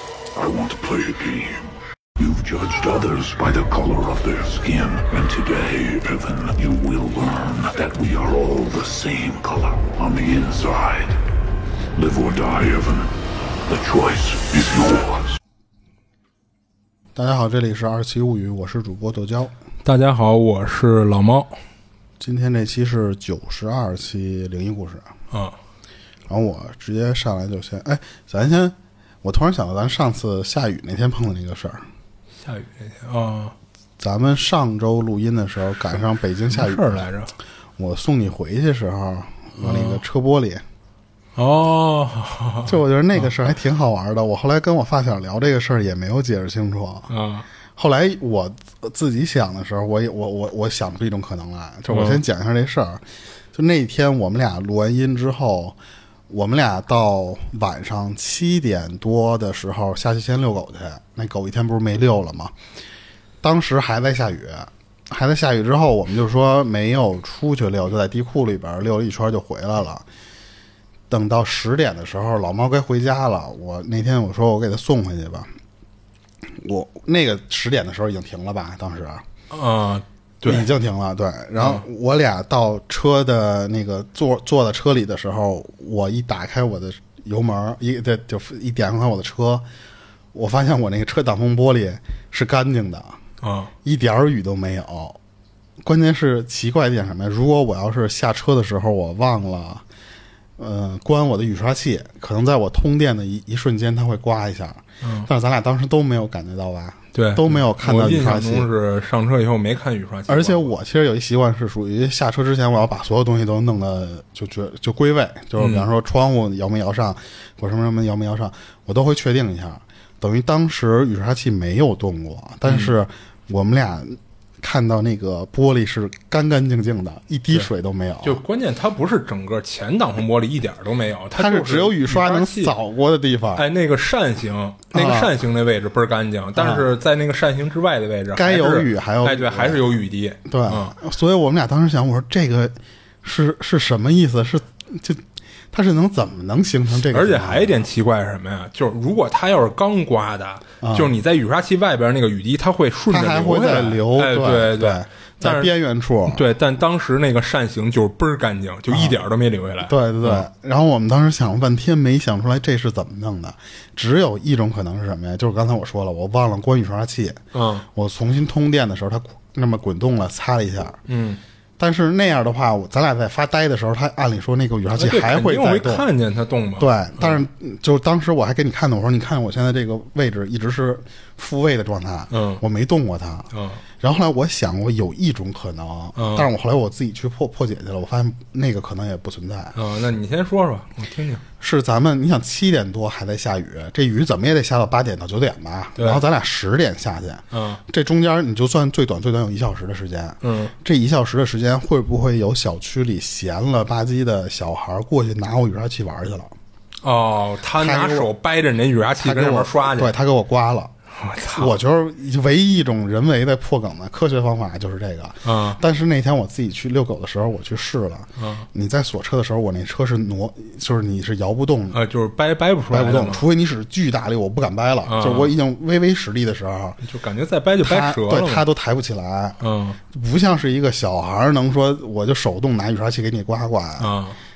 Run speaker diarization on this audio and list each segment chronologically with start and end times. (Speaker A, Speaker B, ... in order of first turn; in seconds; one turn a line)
Speaker A: 0.3-1.6
Speaker A: 2.2-11.2
Speaker A: 11.9-13.1
Speaker A: 13.7-15.3
Speaker B: 17.1-19.5
Speaker C: 19.8-21.6
Speaker B: 22.2-25.1
Speaker C: 25.3-25.6
Speaker B: 26.3-31.8
Speaker C: 32.4-33.5
Speaker B: 34.0-37.1
Speaker C: 36.5-37.3
Speaker B: 37.8-40.6
Speaker C: 39.6-40.0
Speaker C: 41.4-43.3
Speaker B: 42.6-47.1
Speaker C: 47.1-47.5
Speaker B: 47.8-53.0
Speaker C: 51.9-52.2
Speaker B: 53.5-55.8
Speaker B: 56.3-62.5
Speaker B: 63.4-70.0
Speaker B: 71.1-75.5
Speaker B: 76.6-79.2
Speaker C: 79.5-80.7
Speaker B: 80.4-89.6
Speaker C: 81.6-81.8
Speaker B: 90.3-93.2
Speaker C: 93.4-93.7
Speaker B: 93.8-95.2
Speaker B: 95.8-99.8
Speaker B: 100.6-108.7
Speaker C: 105.0-105.3
Speaker C: 107.1-110.7
Speaker B: 110.3-128.4
Speaker C: 115.6-115.9
Speaker C: 122.7-122.9
Speaker C: 128.2-132.7
Speaker B: 131.3-133.6
Speaker C: 133.6-140.9
Speaker B: 134.9-135.3
Speaker B: 136.6-136.9
Speaker B: 138.3-139.8
Speaker B: 140.4-147.8
Speaker C: 147.1-155.7
Speaker B: 150.8-151.1
Speaker B: 153.1-156.4
Speaker C: 156.3-160.4
Speaker B: 158.9-159.2
Speaker B: 159.8-171.0
Speaker C: 167.5-167.9
Speaker C: 171.1-171.4
Speaker B: 171.8-176.1
Speaker C: 174.9-177.4
Speaker B: 176.8-189.8
Speaker C: 182.3-182.6
Speaker C: 183.5-183.8
Speaker C: 186.2-186.5
Speaker C: 189.7-191.4
Speaker B: 191.6-206.5
Speaker C: 195.9-196.2
Speaker C: 197.5-197.8
Speaker C: 200.4-200.7
Speaker C: 207.0-210.2
Speaker B: 207.8-208.3
Speaker B: 209.2-210.9
Speaker C: 211.1-211.7
Speaker B: 211.5-222.0
Speaker C: 215.4-215.8
Speaker C: 218.4-218.7
Speaker C: 221.9-223.4
Speaker B: 222.9-227.0
Speaker C: 225.1-225.5
Speaker C: 227.0-228.7
Speaker B: 227.8-229.6
Speaker C: 229.6-230.0
Speaker B: 230.1-234.1
Speaker C: 234.0-234.4